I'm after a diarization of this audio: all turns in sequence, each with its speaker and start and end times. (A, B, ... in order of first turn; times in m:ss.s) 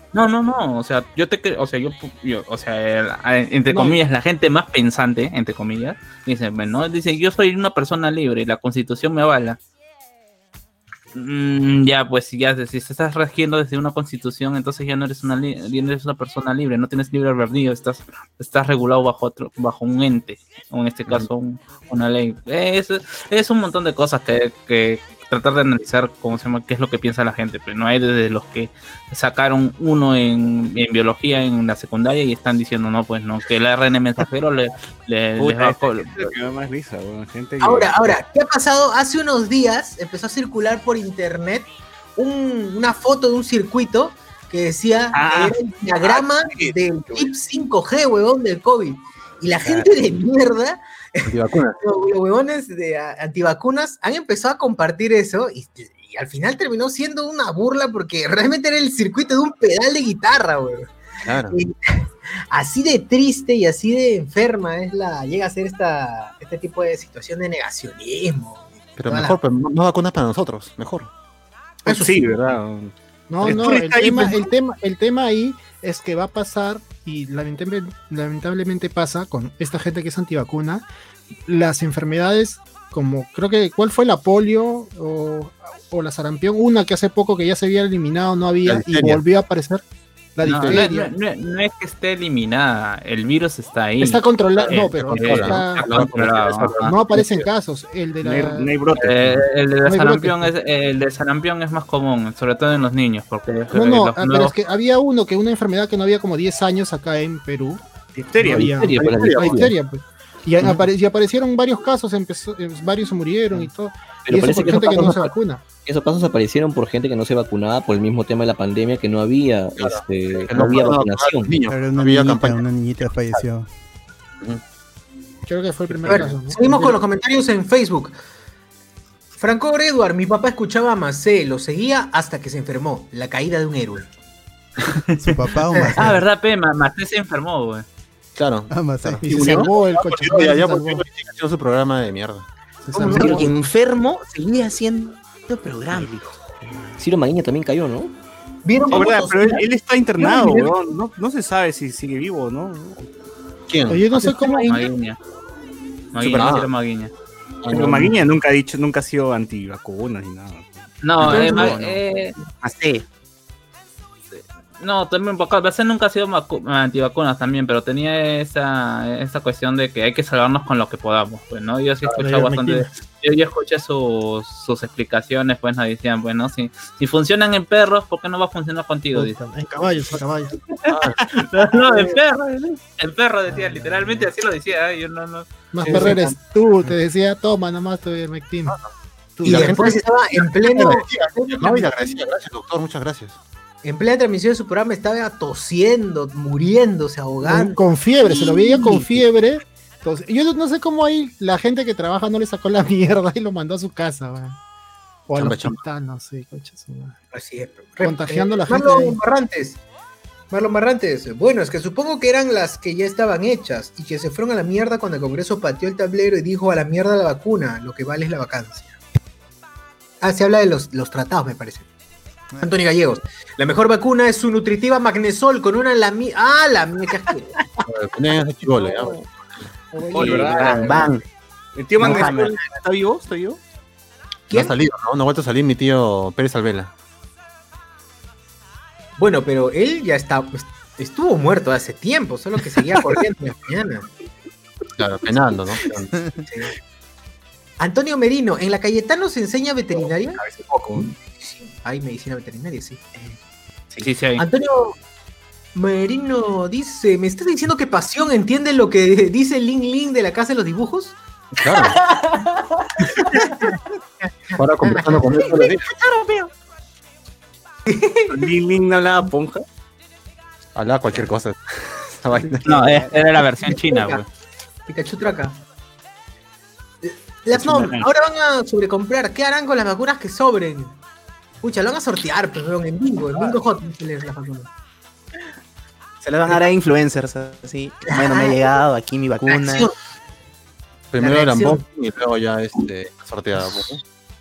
0:00.1-0:09.6 A
0:03.7-0:04.0 B
0:11.1-0:36.3 A
0:35.4-0:38.2 C
0:37.6-1:00.9 D
0:45.1-0:45.6 C
0:49.6-0:49.9 B
0:51.2-0:51.8 B
1:01.2-1:01.6 B
1:01.5-1:09.4 D
1:09.0-1:11.1 B
1:11.8-1:12.3 D
1:11.8-1:14.5 C
1:13.3-1:20.9 E
1:21.4-1:29.8 E
1:28.6-1:29.2 B
1:30.4-1:31.1 E
1:30.4-1:36.9 A
1:30.4-1:30.8 B
1:34.0-1:35.9 E
1:34.7-1:37.4 B
1:36.8-1:38.7 E
1:38.2-1:39.4 C
1:39.0-1:44.5 A
1:39.8-1:40.5 E
1:43.7-1:47.8 E
1:48.3-1:49.0 C
1:48.4-1:55.6 E
1:48.5-1:49.7 F
1:49.0-1:49.6 B
1:54.2-1:55.3 F
1:55.8-2:01.6 F
1:59.8-2:02.6 B
2:01.7-2:03.7 G
2:05.4-2:07.0 E
2:05.9-2:06.3 B
2:06.1-2:08.2 D
2:09.4-2:14.1 D
2:15.2-2:16.2 G
2:15.7-2:16.1 D
2:15.9-2:17.8 A
2:18.4-2:22.4 B
2:18.7-2:19.6 G
2:19.2-2:21.0 E
2:22.8-2:23.5 E
2:22.9-2:23.4 D
2:23.1-2:26.4 H
2:27.0-2:28.1 F
2:28.6-2:29.6 D
2:28.9-2:33.1 C
2:30.2-2:30.7 D
2:33.7-2:34.2 B
2:33.9-2:34.7 E
2:34.2-2:34.9 D
2:34.7-2:35.2 A
2:36.1-2:37.1 A
2:36.2-2:36.7 B
2:37.6-2:38.2 B
2:37.7-2:41.3 C
2:41.0-2:42.3 A
2:41.2-2:42.0 H
2:41.3-2:41.7 D
2:42.6-2:43.0 H
2:44.3-2:59.4 A
2:52.1-2:52.9 E
2:59.1-3:00.5 E
3:00.7-3:06.1 A
3:00.9-3:02.1 B
3:03.5-3:04.3 E
3:05.7-3:08.8 E
3:05.9-3:06.1 B
3:09.4-3:10.0 E
3:09.4-3:13.4 B
3:09.4-3:12.0 D
3:13.8-3:19.1 D
3:17.4-3:24.6 E
3:25.3-3:27.2 E
3:25.3-3:25.8 B
3:27.3-3:29.8 D
3:28.0-3:29.2 E
3:30.5-3:38.9 D
3:40.2-3:41.9 D
3:42.6-3:47.5 D
3:47.8-3:49.3 B
3:48.8-3:49.1 E
3:49.9-3:51.1 E
3:50.1-3:51.1 H
3:50.2-3:50.9 C
3:50.2-3:51.2 B
3:50.2-3:50.8 D
3:51.8-3:53.6 C
3:52.0-3:52.5 B
3:52.0-3:52.5 H
3:52.0-3:52.3 D
3:54.5-3:54.8 D
3:54.5-3:56.9 B
3:59.2-4:04.1 D
4:05.0-4:06.1 B
4:07.8-4:10.4 D
4:10.4-4:11.1 C
4:11.4-4:13.4 D
4:14.0-4:14.4 A
4:14.4-4:15.0 D
4:15.7-4:26.5 D
4:21.6-4:22.0 B
4:24.6-4:25.9 B
4:27.8-4:28.5 D
4:28.3-4:29.6 C
4:30.7-4:33.0 B
4:32.6-4:34.2 A
4:32.8-4:34.2 D
4:34.9-4:35.6 D
4:37.0-4:41.0 D
4:37.5-4:38.1 C
4:41.6-4:44.7 D
4:46.2-4:49.9 H
4:48.1-4:48.6 D
4:49.4-4:49.9 D
4:51.1-4:54.0 B
4:51.2-4:51.8 D